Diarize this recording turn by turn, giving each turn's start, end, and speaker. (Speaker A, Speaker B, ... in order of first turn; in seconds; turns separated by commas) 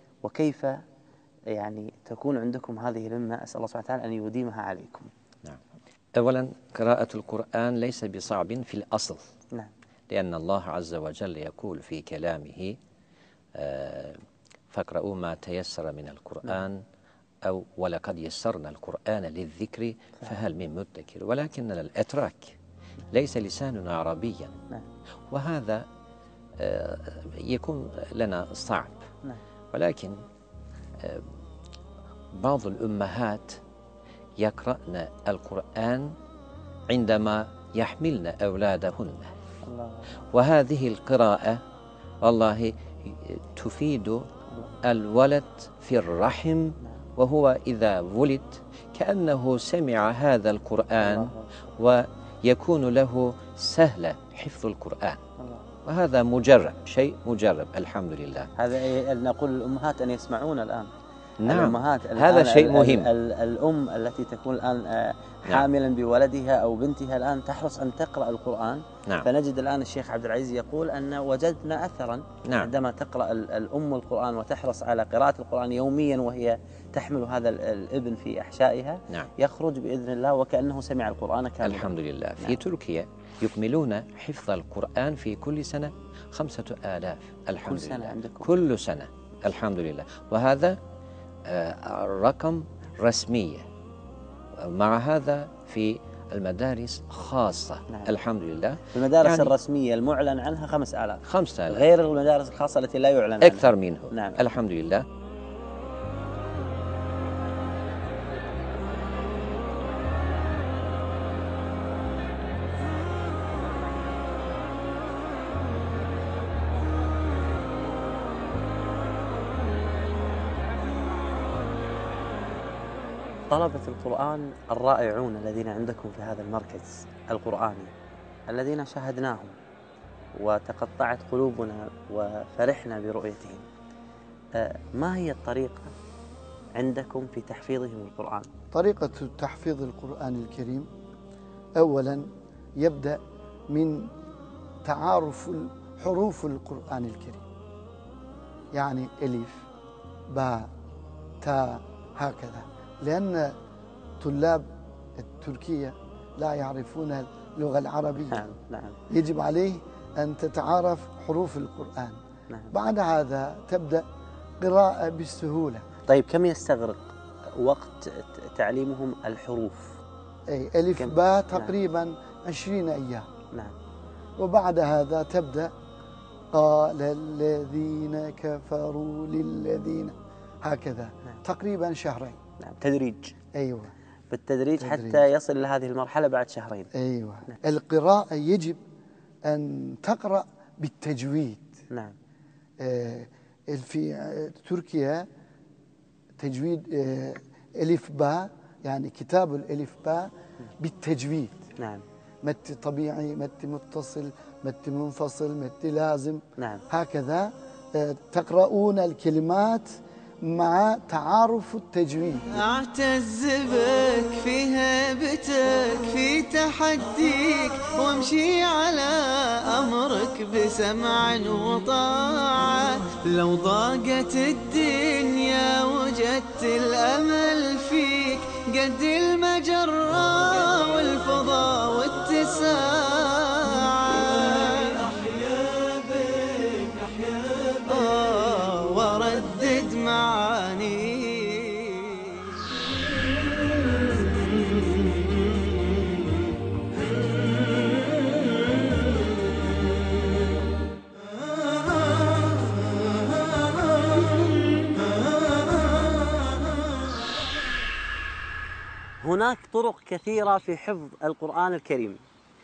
Speaker A: 0.2-0.7, Speaker A: 1.5-5.1, Speaker B: 6.2-9.2, Speaker B: 10.1-12.8, Speaker B: 13.6-14.2, Speaker B: 14.7-16.8, Speaker B: 17.4-22.6, Speaker B: 23.1-24.5, Speaker B: 25.3-25.9, Speaker B: 26.6-29.0, Speaker B: 29.7-30.2, Speaker B: 31.0-31.3, Speaker B: 32.3-33.6, Speaker B: 34.4-36.1, Speaker B: 36.9-39.3, Speaker A: 39.7-40.0, Speaker B: 40.3-41.6, Speaker B: 42.2-44.2, Speaker B: 44.8-55.2, Speaker A: 51.1-51.7, Speaker B: 55.8-58.5, Speaker A: 58.6-60.9, Speaker B: 61.4-63.1, Speaker A: 61.5-82.6, Speaker B: 72.4-72.7, Speaker B: 81.6-90.8, Speaker A: 87.6-88.5, Speaker B: 91.5-93.7, Speaker B: 94.6-99.5, Speaker A: 98.9-103.7, Speaker B: 101.2-101.8, Speaker B: 103.4-105.0, Speaker A: 123.5-127.9, Speaker A: 128.5-129.6, Speaker A: 130.4-133.7, Speaker A: 134.6-135.9, Speaker A: 136.8-138.5, Speaker C: 138.7-140.9, Speaker C: 141.8-142.3, Speaker C: 142.8-143.2, Speaker C: 143.7-144.1, Speaker C: 144.8-147.4, Speaker C: 148.7-149.6, Speaker C: 150.3-150.7, Speaker C: 151.4-153.5, Speaker C: 154.2-154.7, Speaker C: 155.2-158.5, Speaker A: 158.3-159.0, Speaker C: 159.1-162.2, Speaker C: 162.7-164.0, Speaker C: 164.6-165.8, Speaker A: 166.1-170.0, Speaker C: 170.5-173.3, Speaker A: 171.0-171.7, Speaker C: 174.4-175.7, Speaker C: 176.5-182.4, Speaker A: 182.6-183.3, Speaker C: 183.5-183.9, Speaker A: 184.3-186.9, Speaker C: 184.8-185.2, Speaker C: 186.9-188.8, Speaker C: 189.5-191.8, Speaker C: 192.8-195.2, Speaker C: 196.4-201.6, Speaker A: 201.8-202.0, Speaker C: 202.4-212.6, Speaker A: 206.6-206.8, Speaker D: 212.6-235.2, Speaker D: 237.8-242.5, Speaker A: 259.2-262.2